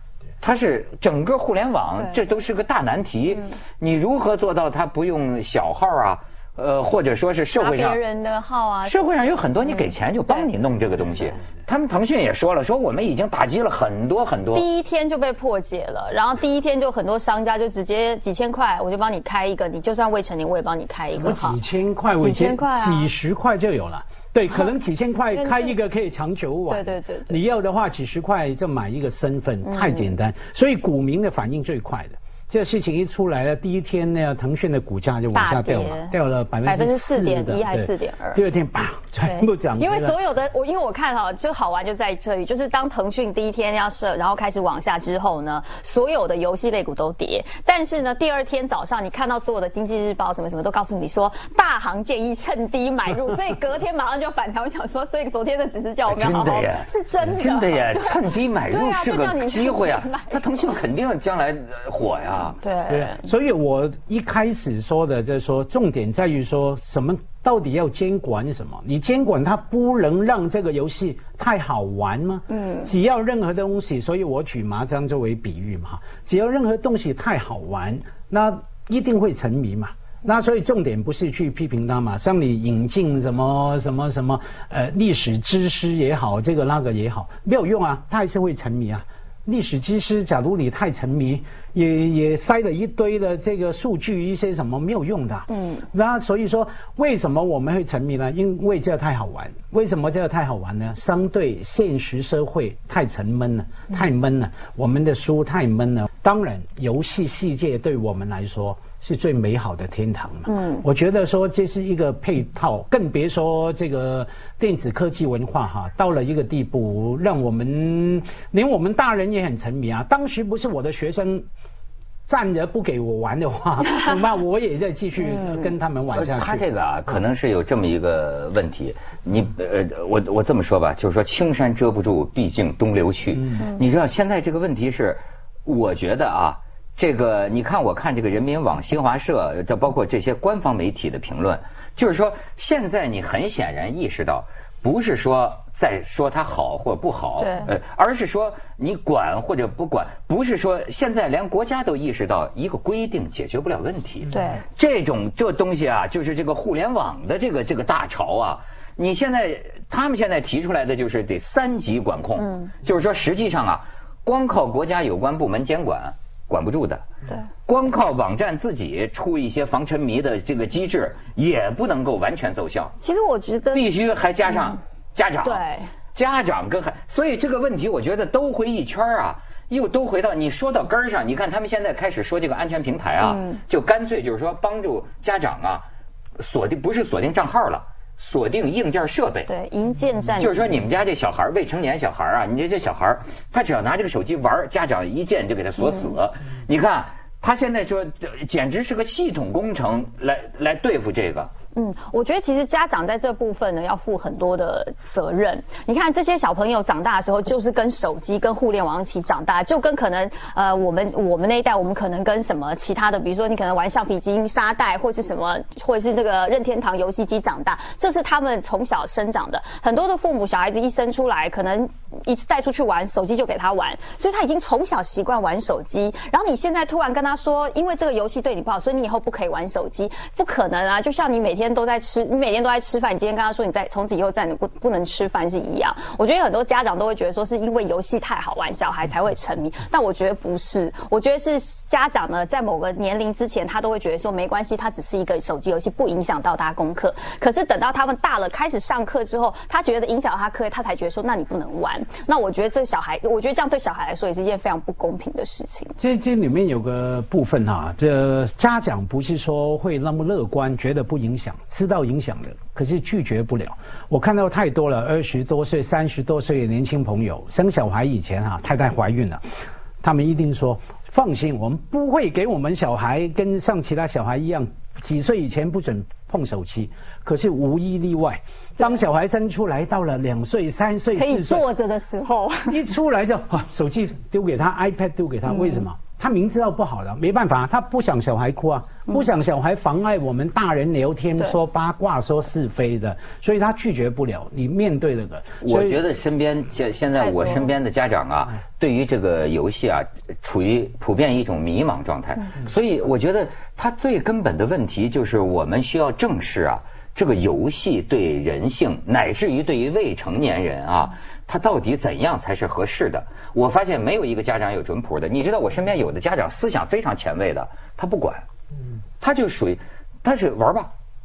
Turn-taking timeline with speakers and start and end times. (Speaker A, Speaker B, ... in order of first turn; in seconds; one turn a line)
Speaker A: 0.4-8.0
Speaker B: 7.5-8.9
Speaker A: 8.8-14.7
Speaker B: 9.6-10.5
Speaker B: 14.5-21.6
Speaker C: 21.1-40.1
Speaker B: 22.2-23.1
Speaker B: 25.3-25.8
Speaker B: 26.7-27.4
Speaker B: 29.6-30.1
Speaker B: 35.3-38.4
Speaker B: 39.2-60.8
Speaker A: 56.1-62.6
Speaker B: 62.6-63.2
Speaker C: 62.9-121.5
Speaker B: 72.5-72.9
Speaker B: 95.5-95.8
Speaker B: 110.5-110.8
Speaker C: 122.3-126.6
Speaker A: 126.1-167.1
Speaker B: 147.4-147.7
Speaker B: 154.3-154.6
Speaker B: 162.4-162.7
Speaker A: 167.7-172.9
Speaker B: 173.0-173.8
Speaker A: 173.7-185.8
Speaker B: 175.4-175.9
Speaker B: 183.2-183.6
Speaker A: 186.4-189.5
Speaker B: 189.5-190.6
Speaker A: 190.4-201.5
Speaker B: 201.7-255.9
Speaker C: 256.0-269.4
Speaker C: 270.0-281.6
Speaker B: 281.1-282.8
Speaker C: 282.7-296.0
Speaker B: 285.5-285.8
Speaker A: 295.6-318.4
Speaker B: 297.2-297.7
Speaker A: 319.2-320.9